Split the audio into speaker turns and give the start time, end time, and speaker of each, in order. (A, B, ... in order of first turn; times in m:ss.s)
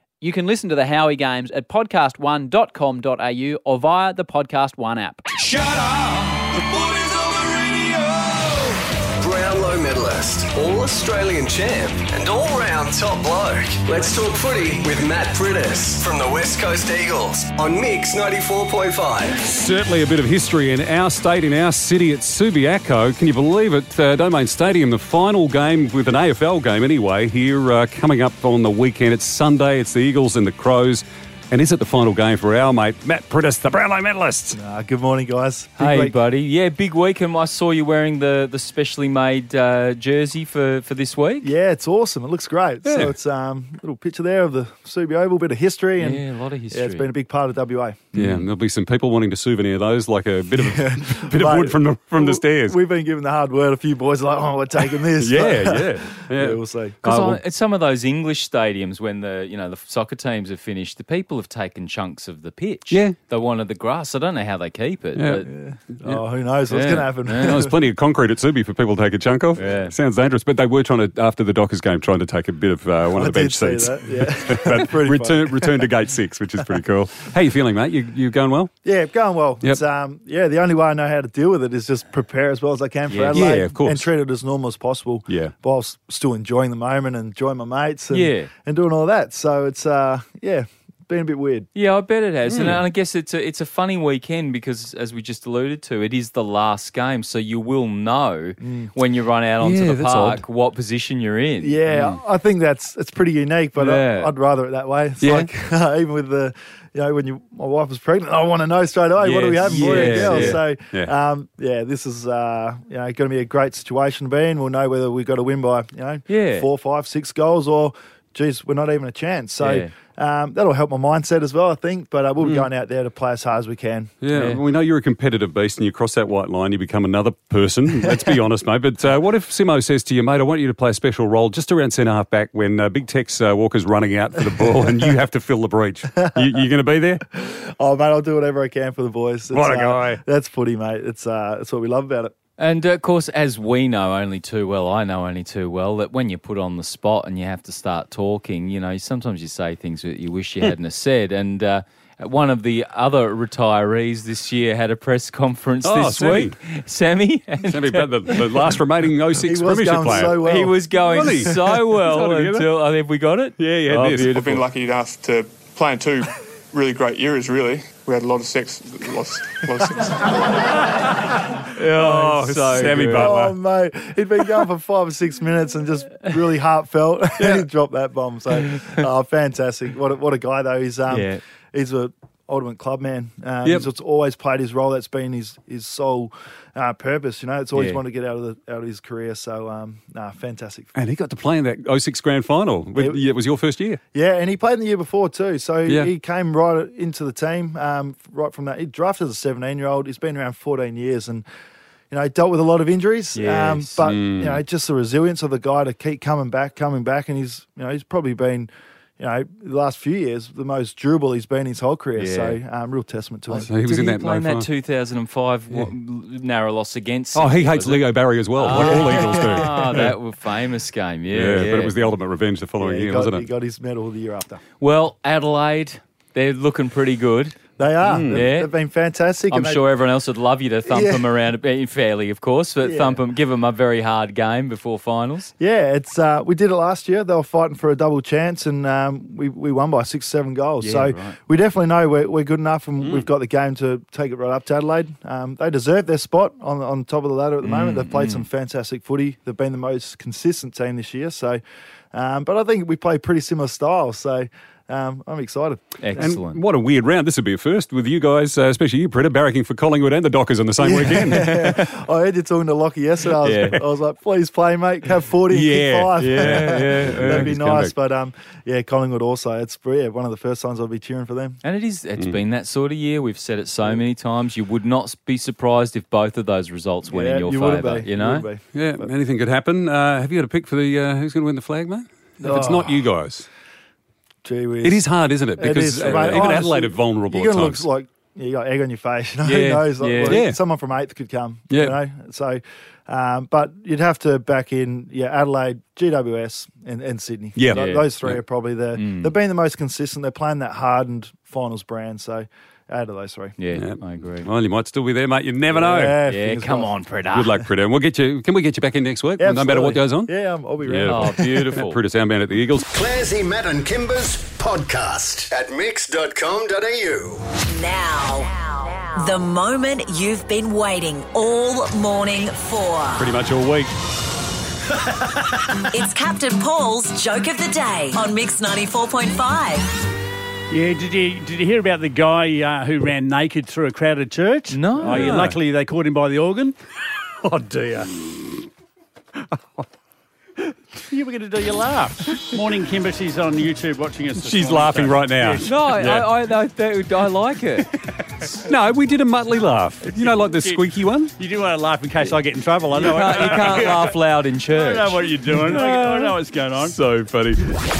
0:00.2-0:05.2 A
0:05.4-0:19.4 B
0:19.4-0:34.6 C
0:34.5-0:36.2 D
0:35.8-0:41.5 E
0:41.4-0:48.3 D
0:42.8-0:43.1 C
0:46.0-0:47.1 E
0:48.1-0:52.8 C
0:50.5-0:57.0 D
0:55.1-0:57.4 C
0:57.0-1:05.5 E
1:05.2-1:05.4 C
1:05.4-1:07.8 D
1:06.7-1:07.6 E
1:07.4-1:18.7 C
1:09.5-1:09.9 E
1:13.1-1:15.9 D
1:18.8-1:31.7 D
1:23.1-1:23.5 E
1:23.3-1:24.1 C
1:25.3-1:25.5 C
1:28.1-1:28.5 E
1:31.7-1:42.2 E
1:32.5-1:32.8 C
1:38.6-1:38.9 D
1:39.6-1:40.4 C
1:41.6-2:04.1 D
1:43.8-1:44.3 E
1:45.2-1:45.5 C
1:49.2-1:50.6 E
1:49.7-1:51.1 C
1:56.3-1:56.6 E
1:59.6-1:59.9 E
2:02.4-2:02.7 C
2:04.2-2:17.2 C
2:04.3-2:04.6 E
2:08.1-2:08.3 D
2:14.6-2:14.9 D
2:16.2-2:16.6 D
2:17.3-2:22.3 D
2:19.5-2:20.2 C
2:22.6-2:38.8 E
2:35.8-2:36.6 C
2:37.6-2:42.7 C
2:39.4-2:41.5 D
2:40.0-2:44.6 E
2:43.6-2:44.4 C
2:44.1-2:50.6 F
2:51.7-2:53.3 E
2:51.8-2:53.6 C
2:53.0-3:10.9 D
2:57.4-2:57.6 C
3:01.1-3:01.4 E
3:07.7-3:08.0 E
3:10.9-3:14.0 C
3:13.0-3:13.2 D
3:14.1-3:21.4 D
3:15.8-3:16.1 C
3:22.1-3:33.7 D
3:23.3-3:24.0 E
3:24.0-3:24.6 C
3:32.2-3:32.6 E
3:33.5-3:34.7 C
3:33.8-3:42.1 E
3:37.3-3:40.1 C
3:38.7-3:39.6 D
3:41.3-3:43.4 C
3:42.8-3:44.6 D
3:44.8-3:47.5 E
3:47.8-3:49.8 D
3:48.0-3:48.4 C
3:48.3-3:48.7 E
3:49.5-3:55.5 E
3:50.8-3:51.3 D
3:52.8-3:53.2 D
3:55.6-4:11.6 D
4:00.8-4:01.4 E
4:03.0-4:03.3 C
4:07.6-4:08.4 E
4:12.1-4:16.3 D
4:16.0-4:16.6 E
4:16.2-4:21.7 C
4:20.8-4:31.6 D
4:21.3-4:21.8 E
4:23.4-4:23.8 E
4:25.5-4:27.9 C
4:26.1-4:27.5 E
4:31.6-4:38.4 E
4:37.1-4:39.0 D
4:38.7-4:43.4 C
4:42.4-4:43.1 D
4:44.4-5:03.5 D
4:44.8-4:47.9 C
4:46.0-4:46.6 E
4:49.4-4:50.4 E
4:50.2-4:50.6 C
4:51.7-4:52.0 C
4:57.5-4:58.4 C
4:57.7-4:58.1 E
4:59.0-4:59.3 E
5:03.6-5:04.5 E
5:03.7-5:06.2 C
5:05.7-5:06.9 D
5:06.2-5:07.6 E
5:07.3-5:12.8 C
5:09.4-5:11.6 D
5:11.0-5:12.0 E
5:12.9-5:17.4 G
5:17.7-5:23.3 H
5:23.2-5:23.9 C
5:25.9-5:29.9 H
5:30.7-5:36.8 I
5:34.7-5:35.4 E
5:35.0-5:35.6 C
5:37.4-5:38.2 I
5:41.0-5:45.8 I
5:44.3-5:46.3 C
5:45.6-5:47.9 E
5:48.6-5:51.3 C
5:50.0-5:57.0 I
5:53.0-5:55.8 E
5:55.8-5:57.5 C